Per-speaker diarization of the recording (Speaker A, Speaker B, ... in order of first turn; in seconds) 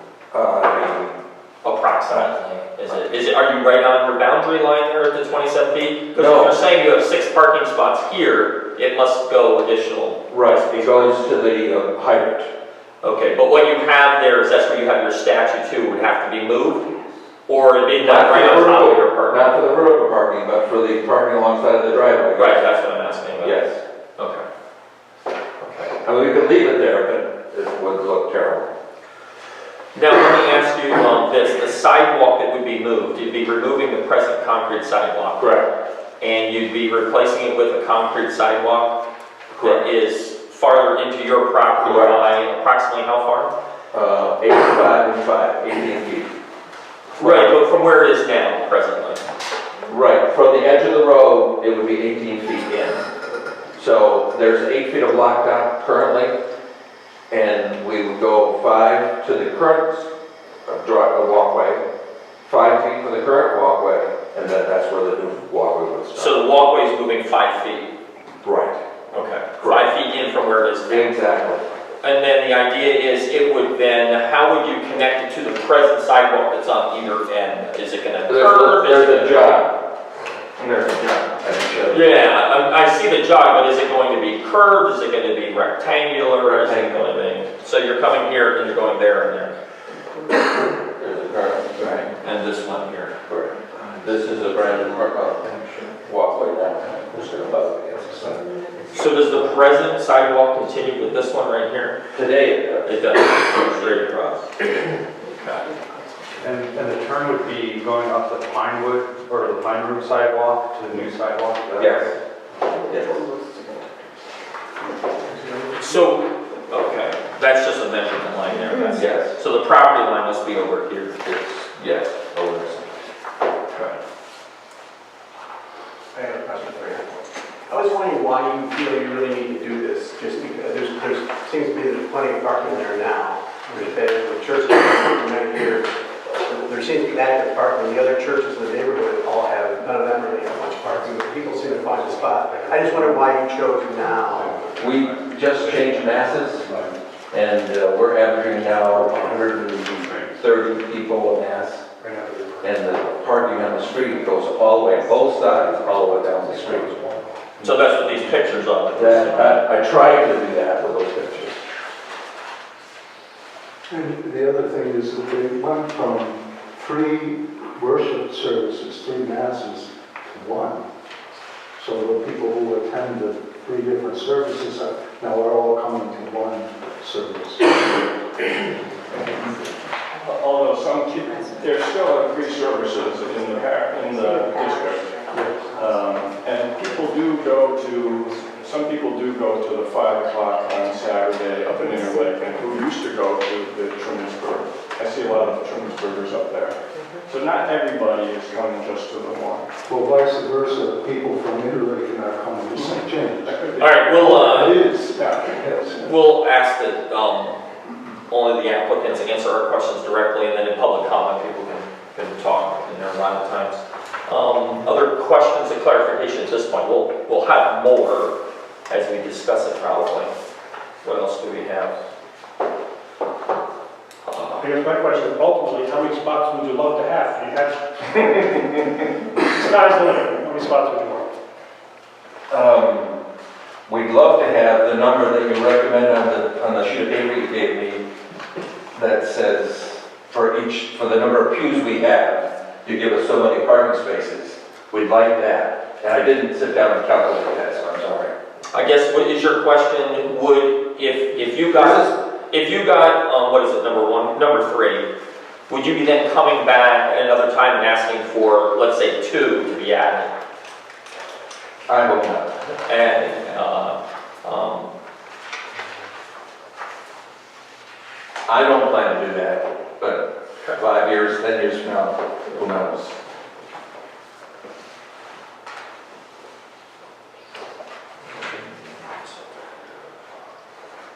Speaker A: 0.3-1.2, 2.8-3.2, 6.1-6.6, 10.3-12.5, 18.0-22.6, 23.4-23.8, 26.0-28.7, 35.4-35.7, 39.5-39.9, 41.8-42.2, 43.9-46.3, 47.2-47.6, 49.9-53.0, 53.8-56.3, 57.3-60.1, 60.6-61.8, 62.5-66.3, 68.4-68.8, 69.6-69.9, 70.9-71.6, 78.3-79.8, 80.6-82.1, 86.4-87.0, 90.5-92.0, 93.3-98.4, 102.1-103.2, 111.8-112.1, 112.8-113.2, 118.9-119.4, 121.2-122.9, 144.8-146.7, 147.3-151.8, 152.6-156.9, 158.9-161.6, 232.5-233.2, 233.9-238.1, 238.9-248.3, 251.7-252.1, 261.9-262.5, 268.5-273.1
Speaker B: 1.6-11.1, 13.0-16.9, 17.5-19.6, 22.3-23.6, 24.2-24.4, 25.6-25.9, 29.9-35.6, 36.2-38.9, 39.6-43.5, 47.2-49.2, 66.1-67.9, 69.1-71.1, 72.0-79.6, 81.9-89.5, 92.2-93.2, 98.9-102.0, 102.8-104.5, 115.7-121.2, 157.6-159.6, 203.8-204.8, 206.0-207.6, 208.3-218.3, 218.9-220.3, 221.0-221.9, 224.3-224.6, 248.7-255.1, 255.7-260.3, 262.9-264.9, 278.3-279.3
Speaker C: 94.3-95.5, 96.5-99.4, 106.4-112.1, 112.7-113.1, 184.2-185.0
Speaker D: 126.1-127.0, 127.7-144.7
Speaker E: 144.4-145.2, 146.6-146.9, 178.5-179.5, 180.2-199.7, 202.7-204.7, 205.2-205.6
Speaker F: 163.9-170.8, 171.8-178.0, 199.8-203.7, 204.2-206.2
Speaker G: 224.6-228.4, 229.4-231.3